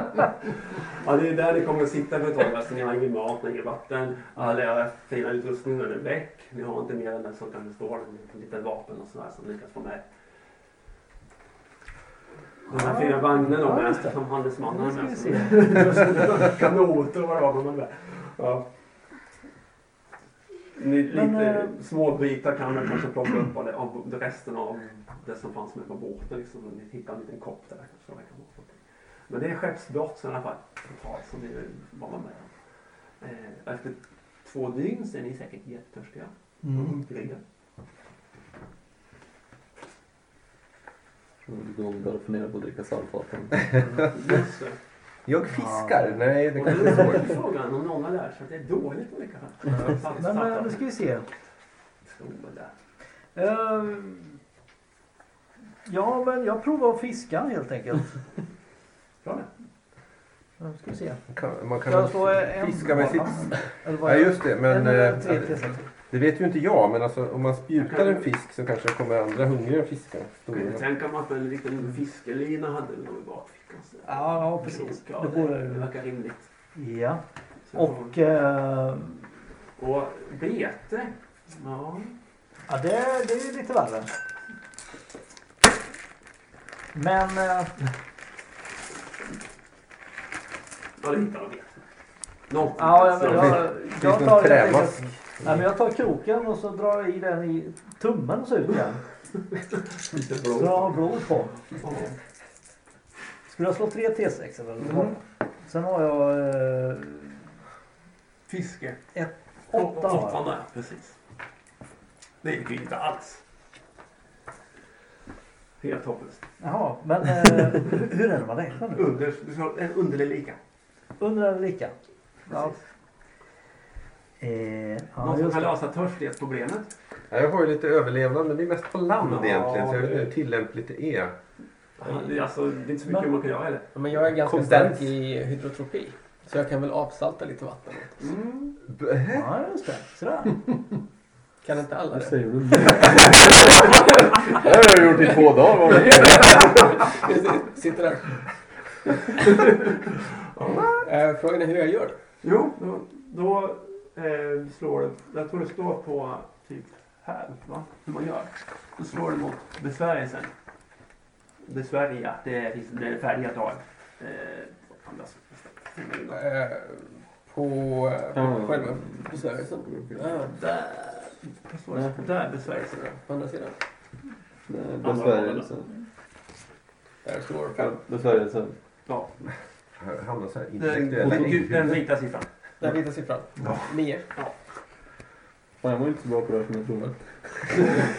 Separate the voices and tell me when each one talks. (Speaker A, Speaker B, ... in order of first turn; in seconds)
Speaker A: 0.8-10.0, 12.7-18.7, 20.7-32.5, 33.2-37.4, 43.9-44.8, 46.5-50.9, 52.0-52.7, 59.2-59.5, 67.8-68.3, 70.5-76.5, 77.7-78.1, 79.8-82.1, 91.0-91.8, 92.5-93.7, 100.1-101.1, 101.7-102.2, 108.5-109.1, 109.7-111.2, 112.4-113.4, 115.8-116.5, 118.9-120.6, 122.5-122.8, 125.2-126.9, 129.2-130.3, 132.0-133.9, 138.2-138.7, 149.4-149.9, 150.5-151.1, 152.4-160.5, 161.6-166.4, 170.5-172.9, 175.0-175.7, 179.1-179.3, 180.8-182.5
Speaker B: 12.7-16.1, 21.1-21.7, 36.6-36.9, 45.5-46.2, 50.2-51.3, 53.3-54.4, 55.8-58.2, 60.6-61.2, 61.8-65.8, 74.0-75.9, 76.7-79.3, 82.7-84.1, 86.9-87.8, 92.8-99.0, 100.5-101.6, 103.5-107.4, 109.1-110.4, 116.6-119.2, 121.2-121.9, 122.5-122.7, 124.4-125.7, 139.3-140.7
Speaker C: 41.5-43.8, 142.1-143.8, 144.5-146.9, 168.3-170.3, 171.9-172.2, 174.7-175.9, 177.8-178.8, 181.2-181.5, 185.8-188.0
Speaker D: 45.2-47.4, 61.3-70.8, 93.2-95.1, 127.3-131.3, 134.5-135.0, 138.9-139.5, 180.0-181.8
Speaker E: 133.9-138.3, 141.6-143.6, 144.7-148.4, 151.0-152.2, 166.3-170.6, 172.7-173.8, 177.2-177.9, 182.8-184.3